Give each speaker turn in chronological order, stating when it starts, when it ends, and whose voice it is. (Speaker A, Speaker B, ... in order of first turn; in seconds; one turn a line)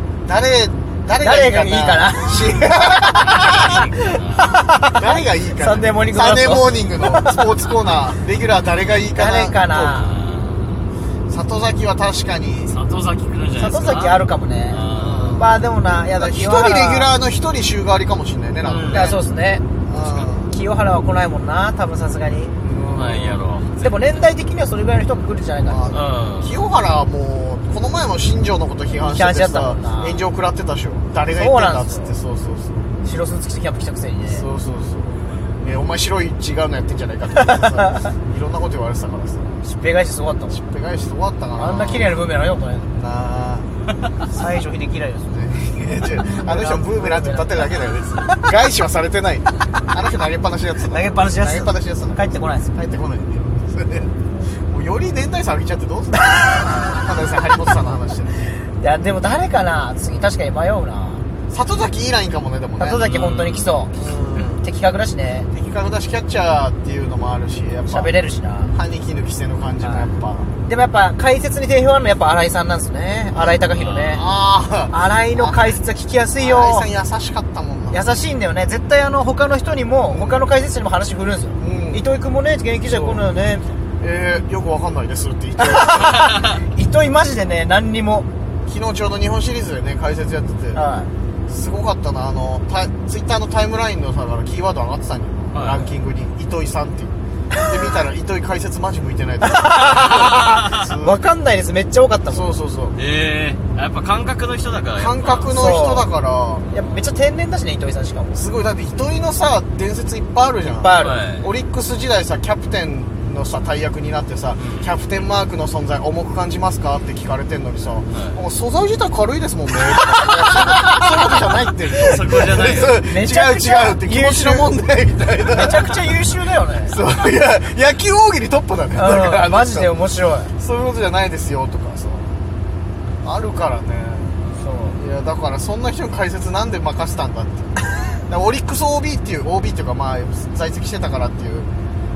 Speaker A: 0.2-3.8
Speaker B: 1.1-3.4
Speaker C: 3.2-4.6
Speaker B: 4.0-7.5
Speaker A: 4.9-10.1
Speaker B: 9.1-10.2
Speaker C: 9.9-10.9
Speaker A: 11.3-12.7
Speaker C: 12.7-14.2
Speaker B: 13.5-17.1
Speaker C: 14.7-15.5
Speaker A: 14.9-15.5
Speaker A: 16.2-19.2
Speaker C: 18.6-19.1
Speaker B: 18.9-19.7
Speaker A: 19.9-20.5
Speaker C: 19.9-20.4
Speaker B: 20.5-22.6
Speaker A: 22.6-23.4
Speaker C: 22.8-24.2
Speaker B: 23.8-26.1
Speaker A: 25.7-32.9
Speaker C: 25.9-26.7
Speaker B: 28.9-30.3
Speaker B: 31.3-32.2
Speaker B: 33.0-34.5
Speaker A: 34.2-39.6
Speaker B: 39.6-40.6
Speaker A: 40.5-42.2
Speaker B: 41.5-42.9
Speaker A: 42.9-43.7
Speaker B: 44.2-48.5
Speaker A: 45.3-58.5
Speaker B: 50.9-53.0
Speaker B: 56.3-57.0
Speaker B: 58.7-61.2
Speaker A: 61.5-63.1
Speaker B: 62.8-63.9
Speaker C: 63.0-63.8
Speaker A: 63.9-64.6
Speaker B: 64.4-65.5
Speaker A: 65.5-68.1
Speaker B: 67.9-68.7
Speaker A: 68.7-70.5
Speaker B: 69.8-70.1
Speaker B: 70.6-74.2
Speaker A: 74.1-75.7
Speaker B: 74.9-76.9
Speaker A: 76.4-78.0
Speaker B: 77.9-83.7
Speaker A: 80.1-80.4
Speaker A: 81.6-82.0
Speaker A: 82.8-83.2
Speaker A: 84.0-86.2
Speaker B: 85.6-88.3
Speaker A: 88.7-90.8
Speaker B: 90.7-91.1
Speaker A: 91.5-101.2
Speaker C: 95.5-96.0
Speaker B: 99.4-102.6
Speaker C: 100.0-100.8
Speaker A: 102.3-103.0
Speaker C: 102.9-105.6
Speaker A: 105.0-106.7
Speaker B: 105.5-106.1
Speaker B: 106.7-108.4
Speaker C: 106.7-107.1
Speaker A: 108.3-126.0
Speaker B: 110.6-111.2
Speaker C: 111.0-111.5
Speaker C: 114.6-115.0
Speaker C: 118.1-118.4
Speaker C: 122.0-123.0
Speaker B: 123.0-124.8
Speaker B: 125.5-127.0
Speaker A: 126.9-129.9
Speaker B: 128.9-130.5
Speaker A: 130.6-132.4
Speaker A: 133.2-134.4
Speaker B: 134.5-135.0
Speaker A: 134.9-137.7
Speaker A: 138.2-141.7